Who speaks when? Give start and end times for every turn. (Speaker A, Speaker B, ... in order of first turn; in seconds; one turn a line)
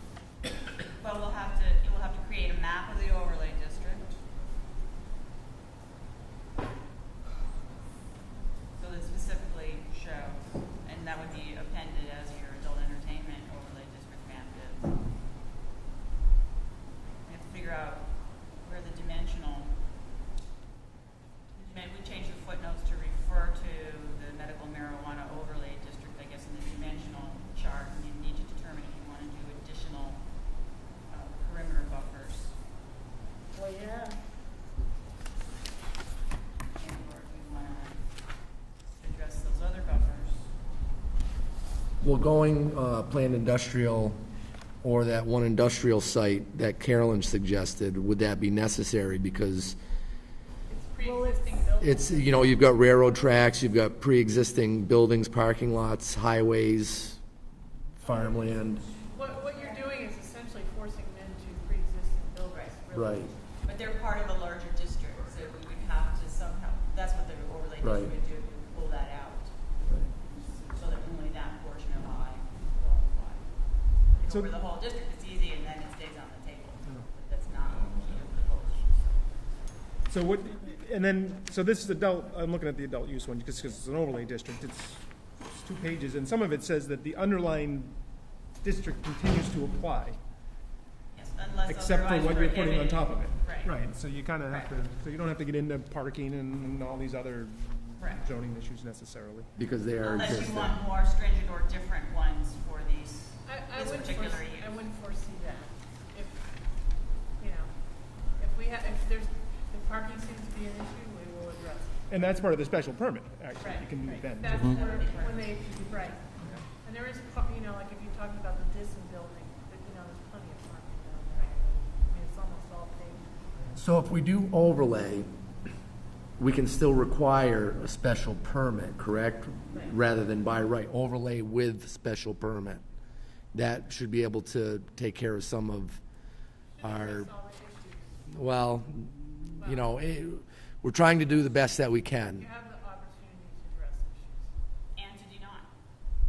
Speaker A: 1.0-4.2
Speaker A: 8.8-15.0
Speaker A: 17.2-19.8
Speaker A: 21.6-30.3
Speaker A: 31.1-32.6
Speaker B: 33.5-34.2
Speaker A: 36.8-38.0
Speaker A: 38.9-40.5
Speaker C: 42.0-44.2
Speaker C: 44.8-49.8
Speaker D: 50.7-52.5
Speaker B: 51.0-51.4
Speaker C: 51.8-57.2
Speaker C: 58.0-58.8
Speaker B: 58.1-59.0
Speaker D: 59.0-63.4
Speaker C: 62.9-63.3
Speaker A: 63.6-69.7
Speaker C: 67.8-68.1
Speaker E: 69.9-70.6
Speaker A: 70.7-79.8
Speaker E: 74.2-74.5
Speaker E: 76.8-77.1
Speaker E: 77.9-78.2
Speaker E: 80.1-88.0
Speaker E: 88.5-90.2
Speaker A: 91.1-93.8
Speaker E: 91.7-99.5
Speaker A: 94.5-94.8
Speaker A: 98.0-98.3
Speaker C: 99.5-100.7
Speaker A: 100.0-104.8
Speaker D: 103.5-112.2
Speaker E: 112.1-114.6
Speaker D: 113.6-123.5
Speaker A: 114.4-116.2
Speaker C: 123.8-125.3
Speaker C: 126.4-132.8
Speaker C: 133.5-136.0
Speaker D: 136.8-138.3
Speaker C: 136.8-137.3
Speaker C: 138.3-142.4
Speaker D: 139.6-139.9
Speaker D: 141.3-141.8
Speaker D: 142.3-144.5
Speaker A: 144.9-145.7